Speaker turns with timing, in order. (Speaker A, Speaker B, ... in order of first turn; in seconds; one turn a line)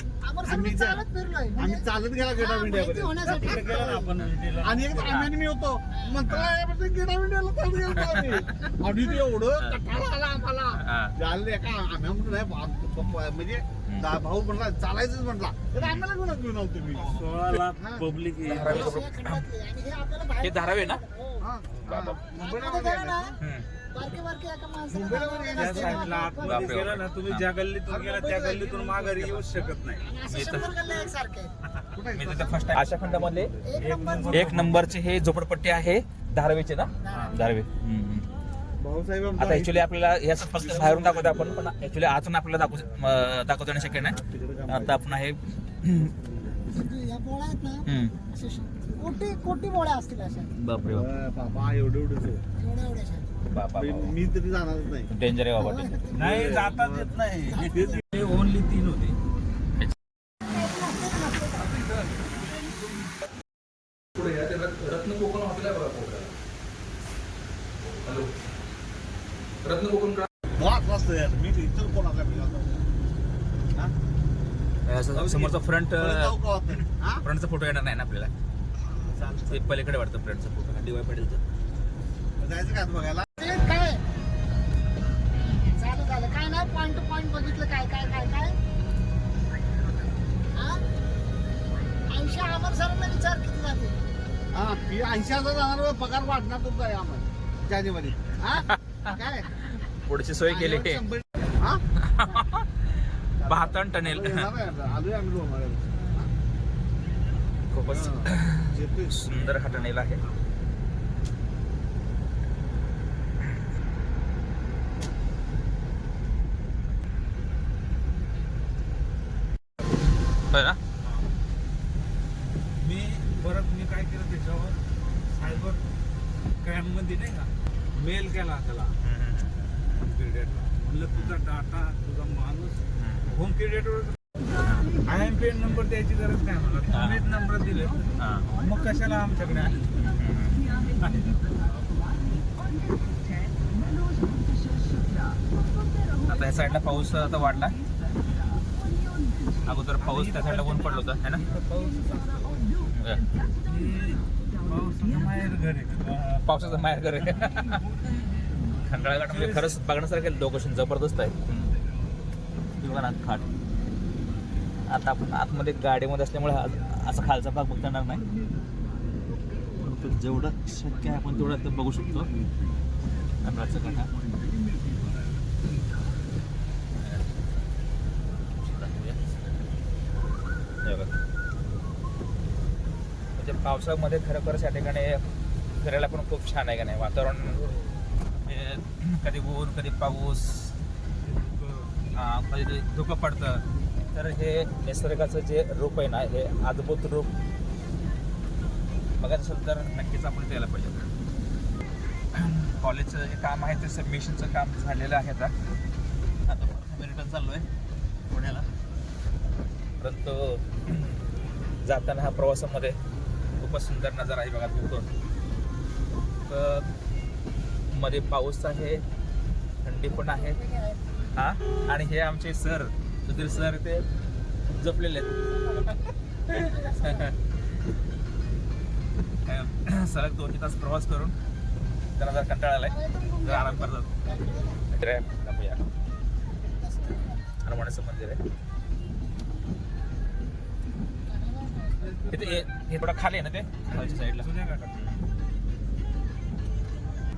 Speaker A: 0.2-1.8
Speaker B: 0.5-1.0
Speaker B: 1.6-17.1
Speaker A: 2.4-4.2
Speaker C: 3.5-5.0
Speaker D: 5.0-5.4
Speaker D: 6.2-6.6
Speaker D: 7.8-10.0
Speaker D: 10.7-11.2
Speaker D: 13.8-14.2
Speaker D: 15.8-16.1
Speaker D: 16.9-17.6
Speaker C: 17.1-18.8
Speaker B: 17.7-18.1
Speaker D: 18.4-19.4
Speaker A: 18.8-21.5
Speaker D: 20.4-21.0
Speaker B: 21.4-22.2
Speaker D: 21.8-22.2
Speaker C: 22.3-22.8
Speaker A: 22.3-23.4
Speaker D: 23.4-23.7
Speaker A: 23.9-26.6
Speaker B: 25.0-25.6
Speaker C: 25.6-30.1
Speaker D: 26.4-27.5
Speaker B: 28.4-28.7
Speaker A: 30.0-31.5
Speaker D: 30.3-30.9
Speaker B: 31.9-33.8
Speaker D: 32.1-33.6
Speaker A: 33.6-34.4
Speaker C: 33.8-34.8
Speaker D: 34.2-38.3
Speaker A: 37.0-37.4
Speaker B: 38.8-39.7
Speaker D: 39.4-46.1
Speaker B: 44.2-44.7
Speaker A: 46.7-50.5
Speaker D: 47.9-48.2
Speaker D: 50.5-51.2
Speaker B: 51.0-52.5
Speaker A: 52.5-53.3
Speaker D: 53.5-54.2
Speaker B: 53.9-55.1
Speaker D: 55.1-56.1
Speaker A: 55.9-56.2
Speaker C: 56.1-59.2
Speaker B: 56.2-56.8
Speaker A: 57.4-57.9
Speaker A: 60.5-61.6
Speaker C: 61.6-62.1
Speaker D: 64.1-66.3
Speaker D: 68.0-68.3
Speaker D: 69.6-70.3
Speaker B: 70.6-72.8
Speaker D: 74.8-78.3
Speaker B: 75.4-77.1
Speaker B: 78.9-79.5
Speaker D: 79.4-81.4
Speaker B: 82.4-83.4
Speaker A: 83.4-84.0
Speaker A: 85.7-88.6
Speaker A: 90.5-90.8
Speaker A: 92.1-94.0
Speaker B: 94.5-99.5
Speaker D: 98.5-101.1
Speaker B: 100.4-101.8
Speaker D: 101.9-102.9
Speaker D: 103.4-105.0
Speaker B: 104.0-106.2
Speaker D: 107.7-110.2
Speaker B: 108.0-109.4
Speaker D: 120.5-120.8
Speaker C: 122.8-124.8
Speaker C: 125.3-125.8
Speaker D: 125.4-125.7
Speaker C: 126.6-128.9
Speaker D: 129.0-129.6
Speaker C: 130.0-134.2
Speaker D: 131.1-131.4
Speaker D: 132.9-133.3
Speaker D: 134.6-135.0
Speaker C: 135.0-140.0
Speaker D: 136.9-137.3
Speaker D: 138.2-138.5
Speaker D: 140.0-140.8
Speaker C: 140.9-141.6
Speaker D: 146.2-147.8
Speaker D: 149.6-151.5
Speaker C: 150.1-150.8
Speaker C: 151.5-152.2
Speaker D: 152.9-153.2
Speaker C: 153.6-156.4
Speaker D: 156.3-157.9
Speaker D: 158.8-161.7
Speaker D: 162.8-163.5
Speaker D: 164.9-168.2
Speaker D: 169.8-172.3
Speaker D: 173.4-174.1
Speaker D: 177.0-177.3
Speaker D: 178.6-179.4
Speaker D: 180.8-181.2
Speaker D: 183.4-187.7
Speaker D: 188.4-190.8
Speaker C: 191.5-191.8
Speaker D: 192.1-197.3
Speaker D: 199.2-201.1
Speaker D: 202.3-205.6
Speaker D: 206.4-207.7
Speaker D: 208.3-208.7
Speaker D: 210.0-211.2
Speaker D: 211.8-213.0
Speaker D: 213.6-215.1
Speaker D: 216.4-216.9
Speaker D: 217.9-219.1
Speaker D: 219.8-220.7
Speaker A: 220.6-221.0
Speaker D: 221.3-224.1
Speaker D: 224.8-227.3
Speaker D: 229.4-231.3
Speaker D: 232.1-234.2
Speaker A: 233.0-234.8
Speaker D: 234.8-235.8
Speaker A: 236.6-237.4
Speaker D: 237.6-238.4
Speaker A: 241.3-242.2
Speaker C: 242.1-242.6
Speaker D: 242.2-245.2
Speaker C: 244.4-244.9